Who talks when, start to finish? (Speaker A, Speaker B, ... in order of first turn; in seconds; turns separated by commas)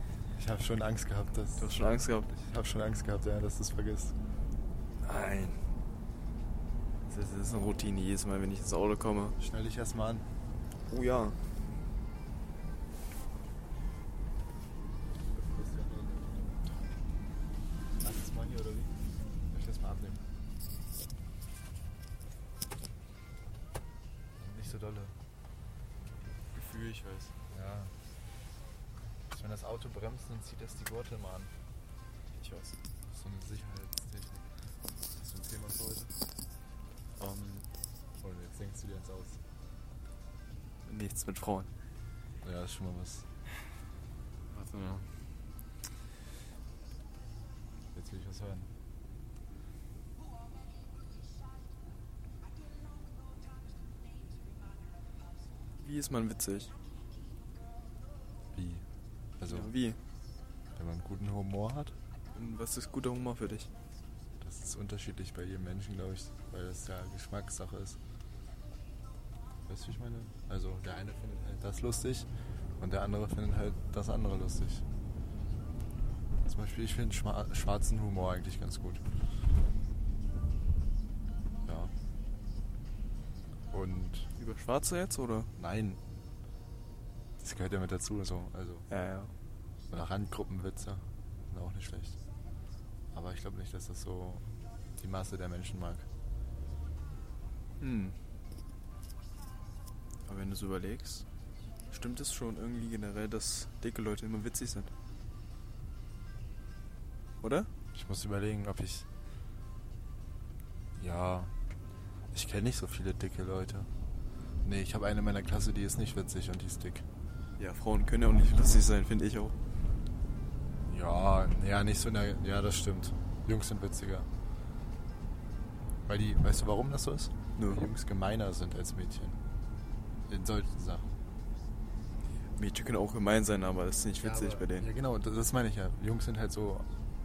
Speaker A: 0.3-4.1, Speaker B: 1.6-2.3, Speaker B: 5.0-5.7, Speaker B: 7.0-9.4, Speaker A: 9.4-10.2, Speaker B: 10.9-11.4, Speaker A: 15.3-16.6, Speaker A: 18.0-18.9, Speaker A: 19.5-20.2, Speaker A: 24.4-25.2, Speaker B: 26.5-27.3, Speaker A: 27.5-27.9, Speaker A: 29.3-31.5, Speaker B: 32.4-32.8, Speaker A: 33.1-34.5, Speaker A: 35.1-36.2, Speaker A: 37.2-37.7, Speaker A: 38.2-39.4, Speaker B: 40.9-41.7, Speaker A: 42.4-43.3, Speaker A: 44.5-45.1, Speaker A: 47.9-48.7, Speaker B: 55.8-56.7, Speaker A: 58.5-58.9, Speaker A: 59.4-59.7, Speaker B: 59.5-60.0, Speaker A: 60.8-62.0, Speaker B: 62.4-63.7, Speaker A: 64.4-68.0, Speaker A: 69.7-74.8, Speaker A: 76.5-79.0, Speaker A: 81.7-81.9, Speaker A: 83.7-84.3, Speaker B: 84.4-85.5, Speaker A: 85.6-86.0, Speaker A: 87.4-88.9, Speaker B: 88.9-89.3, Speaker A: 89.9-92.2, Speaker A: 93.1-94.4, Speaker A: 95.0-96.1, Speaker B: 97.8-98.2, Speaker B: 100.3-101.2, Speaker B: 101.9-104.9, Speaker B: 107.4-107.7, Speaker A: 107.9-109.1, Speaker A: 111.0-111.5, Speaker A: 112.3-113.9, Speaker A: 114.6-117.0, Speaker B: 117.6-119.6, Speaker A: 120.9-124.3, Speaker A: 126.1-129.4, Speaker B: 127.6-127.9, Speaker A: 130.3-131.1, Speaker B: 132.6-134.9, Speaker A: 134.2-136.9